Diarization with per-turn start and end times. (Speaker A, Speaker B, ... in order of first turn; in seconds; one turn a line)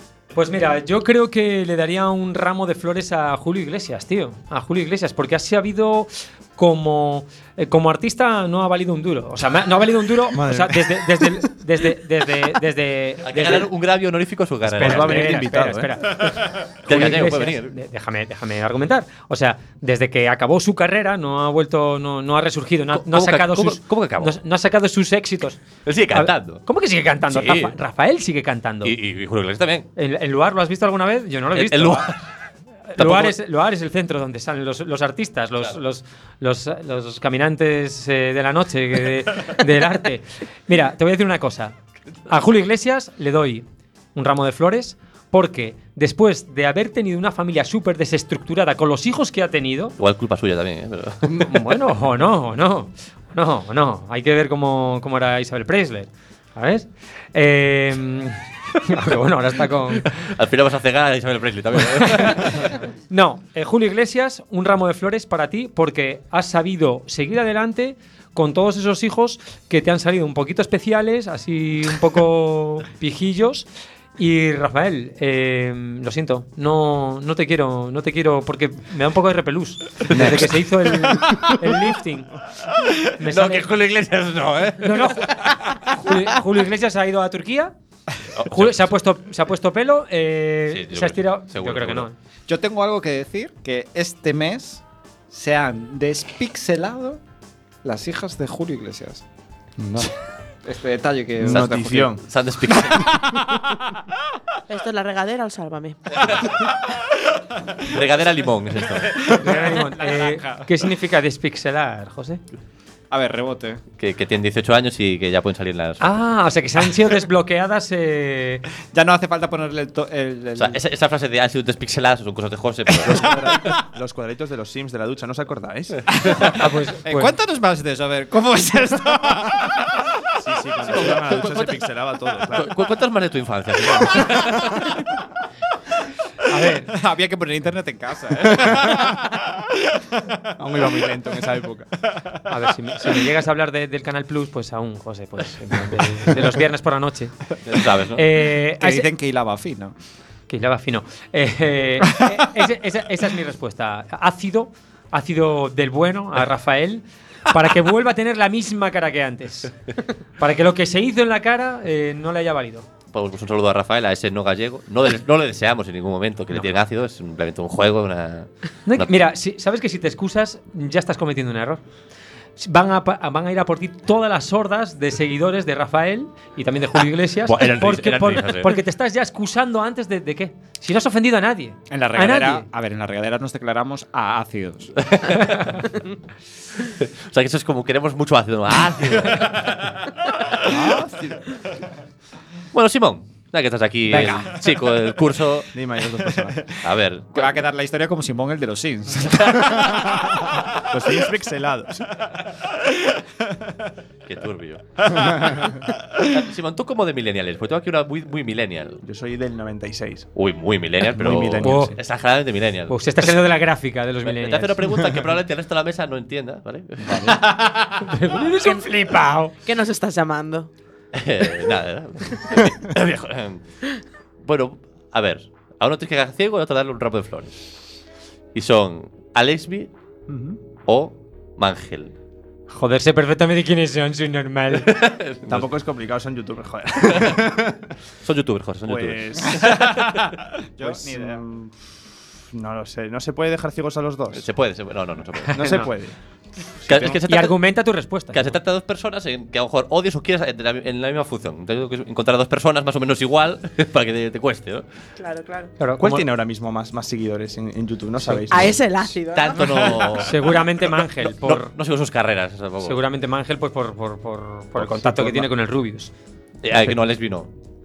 Speaker A: 0.3-13.7
Speaker B: 10.3-11.4
Speaker C: 13.2-15.5
Speaker B: 14.7-16.3
Speaker A: 14.8-25.6
Speaker C: 16.7-17.8
Speaker C: 22.9-24.4
Speaker C: 25.9-26.6
Speaker A: 26.1-28.9
Speaker C: 27.3-27.8
Speaker C: 28.8-29.9
Speaker A: 30.0-32.1
Speaker C: 31.5-32.2
Speaker A: 32.9-41.8
Speaker C: 33.0-33.4
Speaker A: 42.3-50.0
Speaker C: 50.0-51.5
Speaker A: 51.2-60.2
Speaker C: 60.2-62.7
Speaker A: 62.0-73.7
Speaker A: 74.2-82.3
Speaker B: 80.2-80.4
Speaker C: 82.9-85.2
Speaker A: 83.2-83.7
Speaker A: 84.8-87.7
Speaker C: 88.3-88.8
Speaker A: 88.5-92.1
Speaker C: 90.7-92.1
Speaker D: 92.5-97.2
Speaker D: 97.8-99.2
Speaker B: 99.8-100.1
Speaker D: 100.7-102.2
Speaker B: 101.4-102.2
Speaker C: 102.2-103.3
Speaker E: 104.7-106.5
Speaker C: 107.8-109.2
Speaker D: 109.1-110.7
Speaker A: 109.3-112.4
Speaker D: 113.1-113.8
Speaker C: 114.0-116.2
Speaker A: 116.0-118.7
Speaker D: 118.9-120.8
Speaker C: 120.6-123.5
Speaker B: 123.1-126.1
Speaker D: 123.1-123.5
Speaker D: 126.2-129.8
Speaker A: 126.5-127.3
Speaker B: 130.4-132.7
Speaker C: 130.8-131.8
Speaker C: 132.5-135.0
Speaker A: 136.4-136.9
Speaker D: 136.8-139.4
Speaker B: 140.6-142.1
Speaker A: 142.5-147.4
Speaker C: 147.7-148.2
Speaker A: 148.2-149.1
Speaker D: 148.8-149.9
Speaker A: 150.5-159.7
Speaker A: 160.4-162.9
Speaker C: 163.1-169.3
Speaker A: 168.9-171.8
Speaker A: 172.6-182.7
Speaker C: 177.5-178.8
Speaker D: 181.9-184.9
Speaker C: 185.0-185.7
Speaker A: 185.4-185.8
Speaker C: 186.8-190.1
Speaker D: 190.7-191.3
Speaker B: 190.7-191.3
Speaker C: 192.7-195.7
Speaker D: 194.1-194.5
Speaker B: 195.7-196.7
Speaker C: 196.8-197.6
Speaker D: 197.3-200.6
Speaker B: 200.9-202.5
Speaker C: 204.3-209.0
Speaker B: 209.0-210.3
Speaker C: 210.4-213.4
Speaker B: 211.1-212.0
Speaker A: 211.6-212.0
Speaker A: 212.9-214.9
Speaker C: 214.2-217.4
Speaker A: 218.0-219.6
Speaker E: 218.6-218.9
Speaker E: 219.6-220.7
Speaker C: 221.1-223.6
Speaker C: 224.4-227.7
Speaker C: 228.5-229.9
Speaker B: 230.3-230.6
Speaker C: 230.9-232.1
Speaker A: 232.7-234.9
Speaker C: 234.8-235.7
Speaker B: 235.5-237.9
Speaker C: 237.1-237.3
Speaker C: 238.2-239.7
Speaker B: 238.9-241.7
Speaker D: 239.6-240.1
Speaker D: 240.8-241.4
Speaker B: 242.5-244.5
Speaker C: 244.3-245.8
Speaker B: 245.5-246.2
Speaker A: 245.5-245.9
Speaker B: 246.8-247.2
Speaker C: 246.9-247.6
Speaker A: 247.3-248.6
Speaker C: 248.3-254.8
Speaker E: 255.2-255.7
Speaker A: 255.8-256.3
Speaker B: 256.0-259.1
Speaker E: 258.5-260.1
Speaker C: 259.3-263.0
Speaker A: 260.2-261.7
Speaker A: 262.8-266.1
Speaker C: 264.8-265.5
Speaker C: 266.6-267.5